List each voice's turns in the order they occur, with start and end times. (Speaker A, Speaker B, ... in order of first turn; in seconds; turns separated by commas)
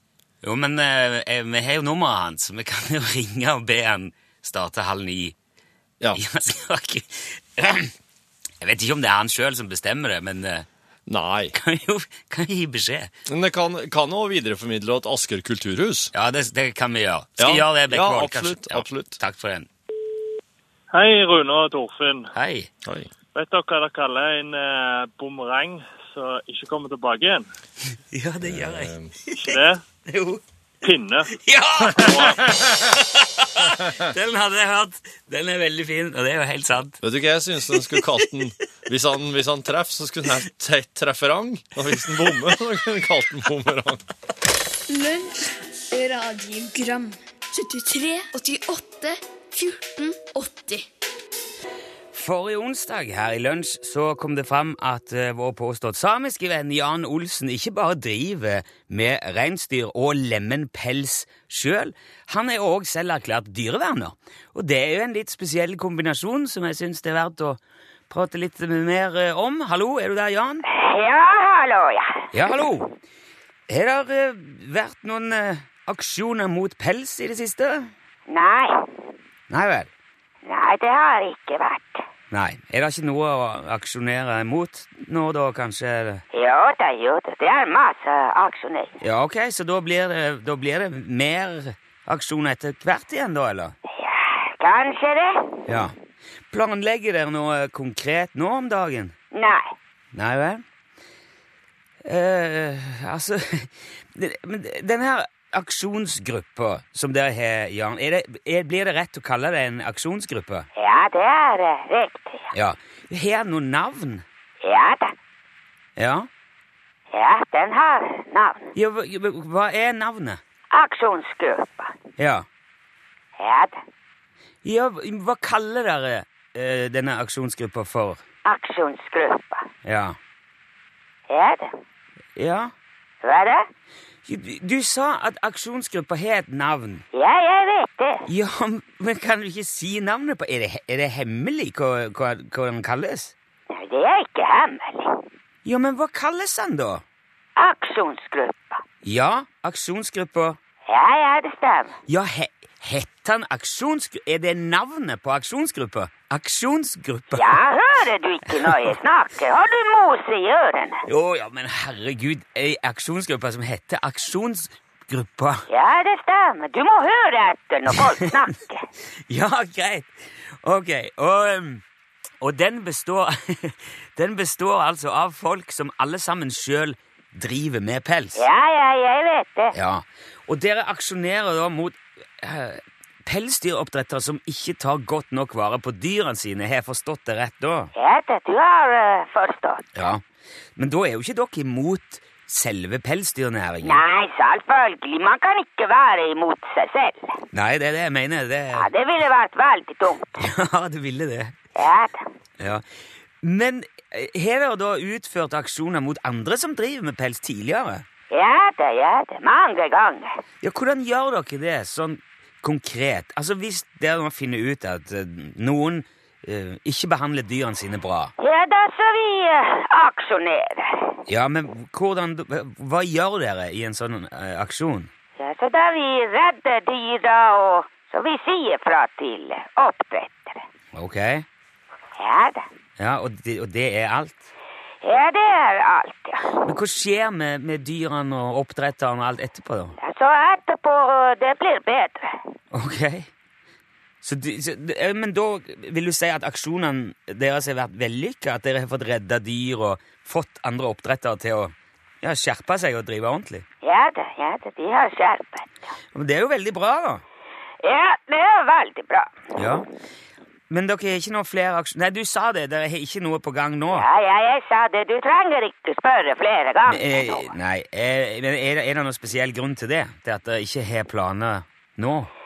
Speaker A: 0.4-5.3, Speaker A: 6.1-7.9, Speaker A: 8.6-10.7, Speaker B: 11.1-11.6, Speaker A: 11.5-13.1, Speaker B: 13.2-16.1, Speaker A: 16.1-19.7, Speaker B: 17.4-19.2, Speaker C: 20.9-22.3, Speaker A: 22.3-22.7, Speaker B: 22.8-23.1, Speaker C: 23.3-27.4, Speaker A: 28.1-30.4, Speaker B: 28.4-29.1, Speaker C: 29.4-29.8, Speaker C: 30.8-31.3, Speaker A: 31.3-37.0, Speaker C: 31.9-32.4, Speaker B: 37.0-44.0, Speaker A: 37.7-38.2, Speaker D: 44.9-50.9, Speaker A: 52.1-70.7, Speaker E: 70.7-72.5, Speaker A: 72.3-72.9, Speaker A: 73.7-77.9, Speaker E: 78.3-78.9, Speaker A: 79.5-79.9, Speaker E: 80.4-82.0, Speaker A: 82.3-86.2, Speaker E: 86.3-88.9, Speaker A: 89.0-93.7, Speaker E: 93.9-95.6, Speaker A: 95.7-95.9, Speaker A: 96.5-99.1, Speaker E: 99.3-99.7, Speaker A: 100.1-100.6, Speaker A: 102.0-110.7, Speaker E: 110.8-112.5, Speaker A: 112.5-114.2, Speaker E: 114.6-115.1, Speaker A: 116.0-116.3, Speaker E: 117.1-118.7, Speaker A: 118.7-120.4, Speaker E: 120.7-121.9, Speaker A: 122.2-122.5, Speaker E: 123.4-123.8, Speaker A: 124.6-128.2, Speaker E: 128.4-129.7, Speaker A: 129.8-130.2, Speaker E: 131.3-131.7, Speaker A: 132.3-132.7, Speaker E: 133.2-133.7, Speaker A: 134.3-137.0, Speaker E: 137.1-138.2, Speaker A: 138.3-143.3, Speaker E: 143.7-145.2, Speaker A: 145.6-147.0, Speaker E: 147.6-148.8, Speaker A: 149.0-150.6, Speaker E: 150.9-151.9, Speaker A: 152.1-157.6, Speaker E: 157.3-161.0, Speaker A: 161.1-165.6, Speaker E: 165.7-168.8, Speaker A: 169.3-170.1, Speaker A: 170.6-171.8, Speaker A: 172.4-178.4, Speaker E: 178.3-179.7, Speaker A: 179.7-187.9, Speaker E: 187.9-189.9, Speaker A: 189.9-190.2, Speaker A: 190.8-194.0, Speaker E: 193.8-197.4, Speaker A: 197.5-198.9, Speaker E: 198.7-200.4, Speaker A: 200.4-201.6, Speaker E: 201.7-202.2, Speaker A: 203.4-208.0, Speaker E: 208.3-210.4, Speaker A: 210.6-218.3, Speaker E: 218.4-221.2, Speaker A: 221.3-225.1, Speaker E: 225.4-230.6, Speaker A: 230.9-231.4, Speaker E: 232.2-232.6, Speaker A: 233.0-234.5, Speaker E: 235.0-236.6, Speaker A: 236.6-239.9, Speaker E: 240.0-242.4, Speaker A: 242.7-243.3, Speaker A: 244.2-253.6, Speaker E: 253.8-255.8, Speaker A: 256.1-257.2, Speaker E: 257.8-259.4, Speaker A: 259.6-259.9, Speaker A: 260.7-264.0, Speaker E: 263.9-267.5, Speaker A: 266.9-272.3